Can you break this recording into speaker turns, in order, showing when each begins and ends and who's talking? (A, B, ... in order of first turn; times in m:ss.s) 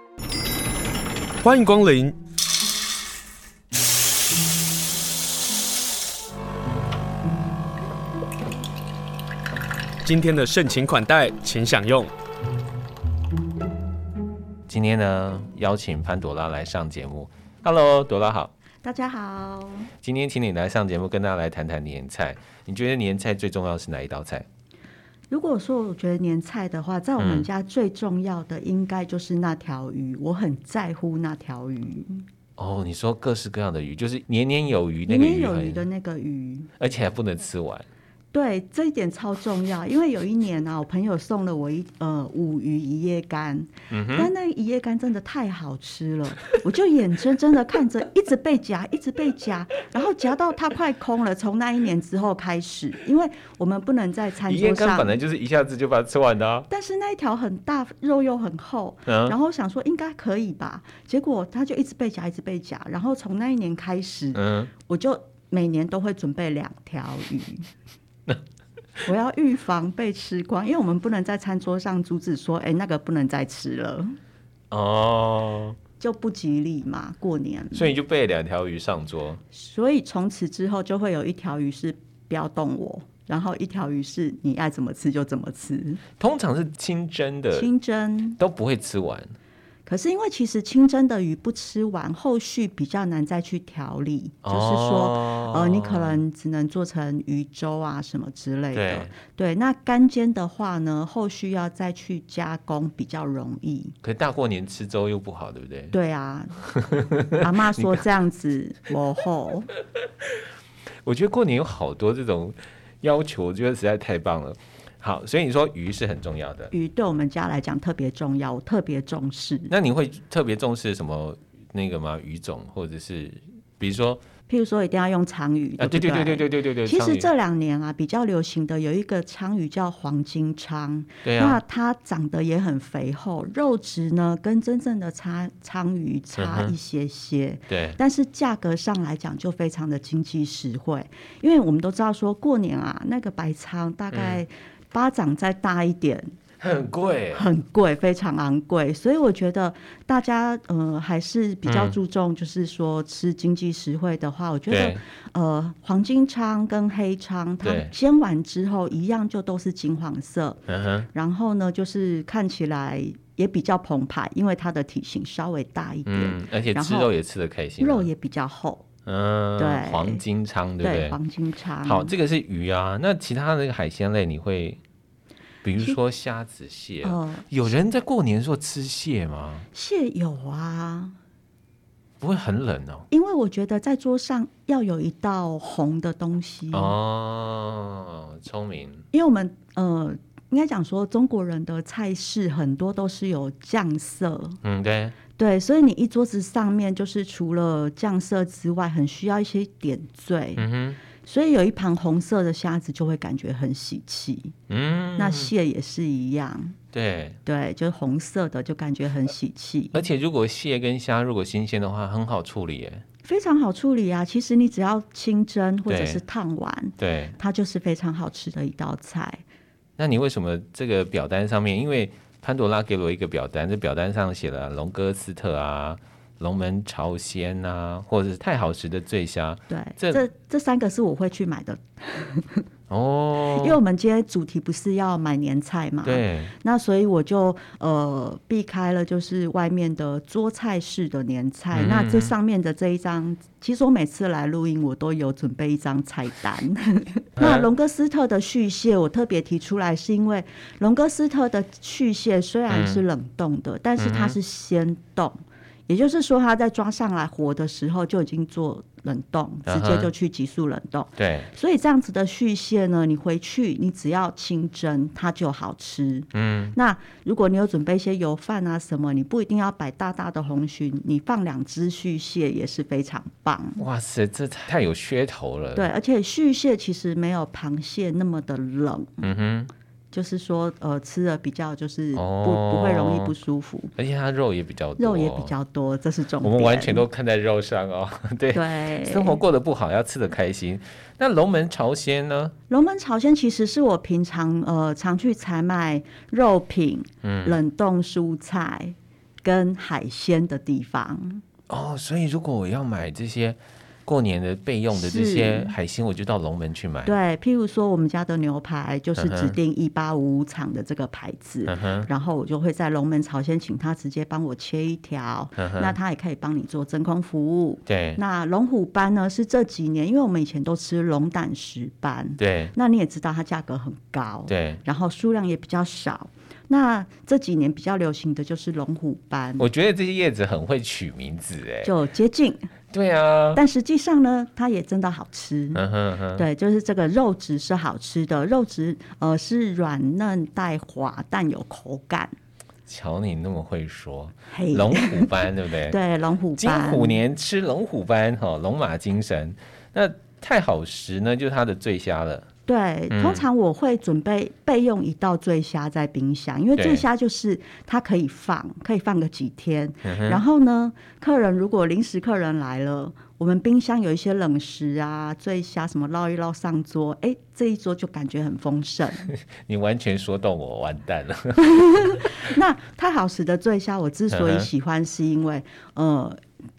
0:01.4-0:02.2 A
0:10.0-0:12.1 A
0:14.7-0:18.5 B
0:18.8-0:19.9 C
0:20.0-0:24.4 B
0:25.3-0:32.2 C
0:27.2-0:27.5 B
0:32.6-0:35.9 B
0:35.1-0:36.7 C
0:36.8-0:37.9 B
0:38.3-0:55.1 C
0:43.9-0:44.3 B
0:54.5-0:56.7 B
0:56.7-1:07.7 C
0:59.0-0:59.4 B
1:04.3-1:04.7 B
1:09.0-1:14.2 C
1:14.7-1:15.8 B
1:16.0-1:17.9 C
1:17.7-1:19.4 B
1:19.5-1:26.0 C
1:26.2-1:27.7 B
1:27.5-1:28.4 C
1:28.4-1:29.3 B
1:29.8-1:44.0 C
1:34.4-1:36.2 B
1:38.7-1:39.1 B
1:44.0-1:45.9 B
1:45.9-1:46.6 C
1:46.6-1:48.0 B
1:47.3-1:49.7 C
1:51.0-1:56.7 B
1:56.7-1:59.7 C
1:59.7-2:04.2 B
2:04.5-2:26.3 C
2:05.8-2:07.3 B
2:11.2-2:11.6 B
2:16.4-2:16.7 B
2:17.7-2:18.0 B
2:24.1-2:24.4 B
2:26.6-2:27.4 B
2:27.3-2:47.1 C
2:31.6-2:32.0 B
2:34.7-2:35.0 B
2:37.6-2:37.9 B
2:40.7-2:41.1 B
2:46.1-2:48.1 B
2:47.8-2:48.8 C
2:49.1-2:51.2 B
2:49.6-2:50.2 C
2:50.8-2:52.1 C
2:51.8-2:54.8 B
2:55.6-2:59.7 B
2:57.0-2:57.5 C
2:59.7-3:01.2 C
3:02.2-3:03.1 B
3:03.1-3:06.9 C
3:06.7-3:09.0 B
3:09.1-3:14.6 C
3:14.6-3:15.2 B
3:15.4-3:20.7 C
3:20.6-3:21.0 B
3:21.2-3:24.5 C
3:24.7-3:25.5 B
3:25.2-3:26.8 C
3:26.9-3:27.4 B
3:27.4-3:30.0 C
3:29.9-3:33.0 B
3:33.2-3:39.4 C
3:35.9-3:36.2 B
3:37.0-3:37.4 B
3:40.0-3:50.2 B
3:49.7-3:52.6 C
3:52.9-3:53.8 B
3:53.4-4:33.8 C
3:56.0-3:56.5 B
4:01.7-4:02.3 B
4:07.4-4:07.7 B
4:12.7-4:13.0 B
4:14.0-4:14.4 B
4:19.7-4:20.1 B
4:21.2-4:21.5 B
4:26.3-4:26.8 B
4:33.8-4:35.9 B
4:35.8-4:39.3 C
4:39.2-4:39.7 B
4:40.1-4:43.9 C
4:42.1-4:43.3 B
4:44.0-4:45.5 B
4:45.0-4:47.0 C
4:46.4-4:52.5 B
4:48.5-4:49.4 C
4:52.7-5:01.4 C
4:57.2-4:57.6 B
5:01.7-5:07.1 B
5:04.9-5:05.7 C
5:07.0-5:29.6 C
5:09.2-5:09.6 B
5:11.7-5:12.1 B
5:15.6-5:16.0 B
5:17.9-5:18.2 B
5:22.4-5:22.7 B
5:24.5-5:24.8 B
5:29.6-5:31.9 B
5:31.8-5:32.6 C
5:32.9-5:33.6 B
5:33.5-5:35.8 C
5:35.8-5:36.5 B
5:36.4-5:42.3 C
5:42.9-5:46.0 B
5:44.5-5:47.2 C
5:46.6-5:52.5 B
5:52.7-6:09.3 C
5:53.1-5:53.5 B
5:56.8-5:57.0 B
6:00.0-6:00.4 B
6:09.3-6:12.4 B
6:11.6-6:16.4 C
6:14.3-6:14.7 B